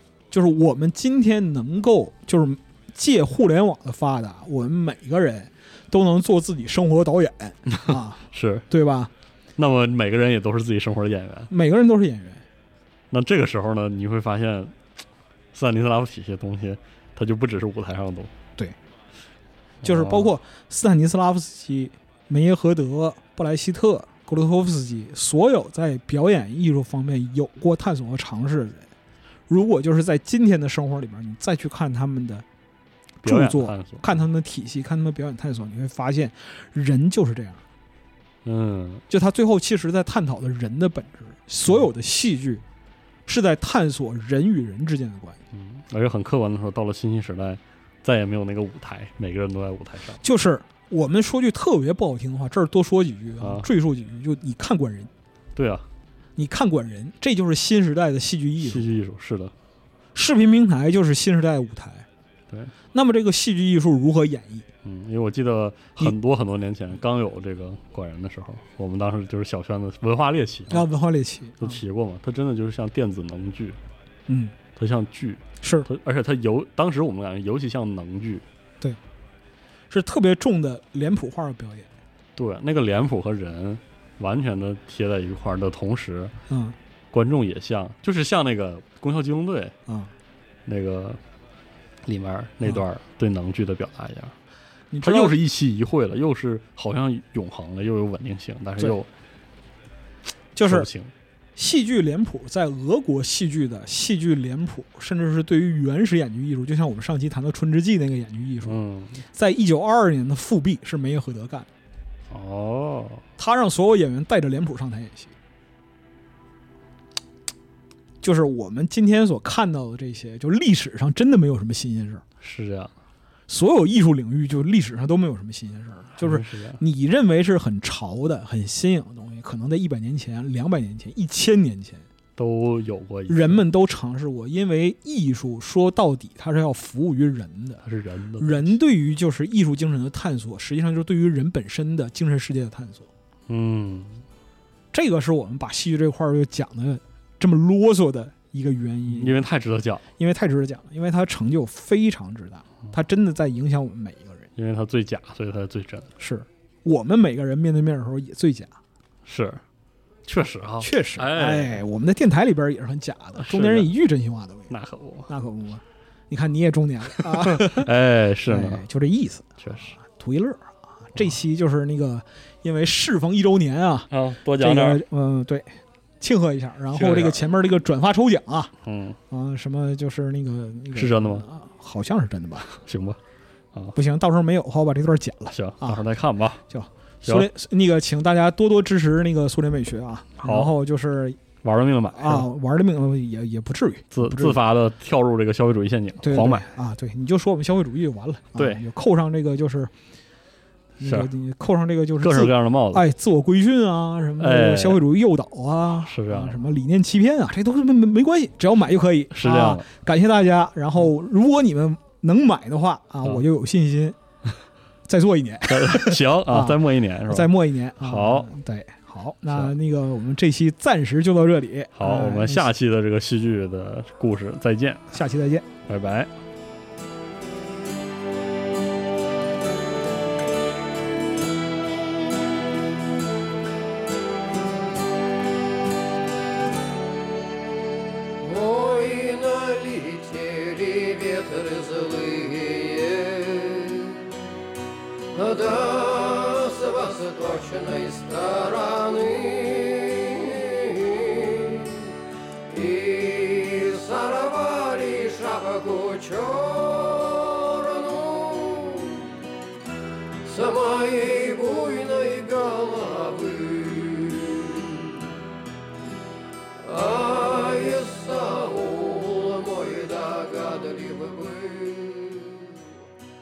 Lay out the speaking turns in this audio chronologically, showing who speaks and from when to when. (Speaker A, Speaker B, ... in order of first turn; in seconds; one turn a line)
Speaker A: 0.3-9.1
Speaker B: 7.7-8.7
Speaker B: 9.6-11.5
Speaker A: 11.5-12.4
Speaker B: 13.1-14.7
Speaker B: 15.5-18.3
Speaker B: 19.8-20.3
Speaker A: 19.8-28.9
Speaker A: 29.5-32.4
Speaker A: 33.2-37.6
Speaker B: 33.2-34.1
Speaker B: 38.4-39.0
Speaker A: 39.1-42.6
Speaker A: 43.2-45.4
Speaker B: 45.5-50.2
Speaker A: 50.2-55.1
Speaker B: 53.4-53.7
Speaker B: 55.5-55.9
Speaker A: 56.4-58.9
Speaker B: 58.6-59.5
Speaker A: 60.1-62.0
Speaker A: 62.9-64.7
Speaker B: 64.8-70.8
Speaker A: 70.7-71.8
Speaker B: 71.6-73.8
Speaker A: 74.3-74.5
Speaker B: 74.8-78.4
Speaker A: 75.6-75.9
Speaker A: 79.9-81.9
Speaker B: 82.3-86.3
Speaker A: 86.5-86.8
Speaker B: 87.1-89.7
Speaker A: 89.9-90.1
Speaker B: 90.7-91.2
Speaker B: 92.0-94.3
Speaker A: 94.9-95.4
Speaker B: 95.0-99.1
Speaker A: 100.5-100.9
Speaker B: 100.6-101.1
Speaker A: 101.5-108.8
Speaker B: 108.6-109.2
Speaker A: 109.3-111.7
Speaker B: 112.3-113.2
Speaker A: 113.4-115.3
Speaker A: 118.2-122.2
Speaker B: 122.4-122.9
Speaker A: 123.5-132.1
Speaker B: 126.2-126.8
Speaker B: 132.3-133.6
Speaker A: 133.3-137.8
Speaker B: 137.8-138.8
Speaker A: 138.4-143.1
Speaker B: 143.5-144.2
Speaker A: 144.9-149.4
Speaker B: 149.1-150.0
Speaker A: 150.2-154.5
Speaker B: 154.6-156.1
Speaker A: 156.2-158.8
Speaker B: 159.2-159.6
Speaker B: 160.2-161.8
Speaker A: 160.8-164.7
Speaker B: 163.3-163.9
Speaker B: 164.7-165.3
Speaker A: 165.3-167.9
Speaker B: 167.2-168.8
Speaker A: 168.4-169.5
Speaker B: 169.6-169.9
Speaker A: 170.0-178.7
Speaker B: 174.1-175.0
Speaker B: 176.9-177.4
Speaker B: 178.8-179.2
Speaker A: 179.3-182.7
Speaker B: 180.9-181.4
Speaker B: 182.7-183.2
Speaker A: 183.9-186.0
Speaker B: 185.5-186.6
Speaker A: 186.7-191.4
Speaker B: 187.2-187.5
Speaker B: 190.4-190.7
Speaker B: 191.6-192.5
Speaker A: 192.1-194.6
Speaker B: 194.1-196.7
Speaker A: 196.2-199.9
Speaker B: 198.5-198.8
Speaker B: 201.0-201.3
Speaker A: 201.0-214.2
Speaker B: 202.2-203.0
Speaker B: 204.4-205.0
Speaker B: 206.0-206.6
Speaker B: 209.3-209.9
Speaker A: 215.1-222.7
Speaker B: 215.6-218.5
Speaker B: 221.9-225.1
Speaker A: 225.1-225.7
Speaker B: 225.9-226.3
Speaker C: 238.3-244.4
Speaker C: 245.3-252.1
Speaker C: 252.7-259.3
Speaker C: 260.4-265.2
Speaker C: 266.8-272.9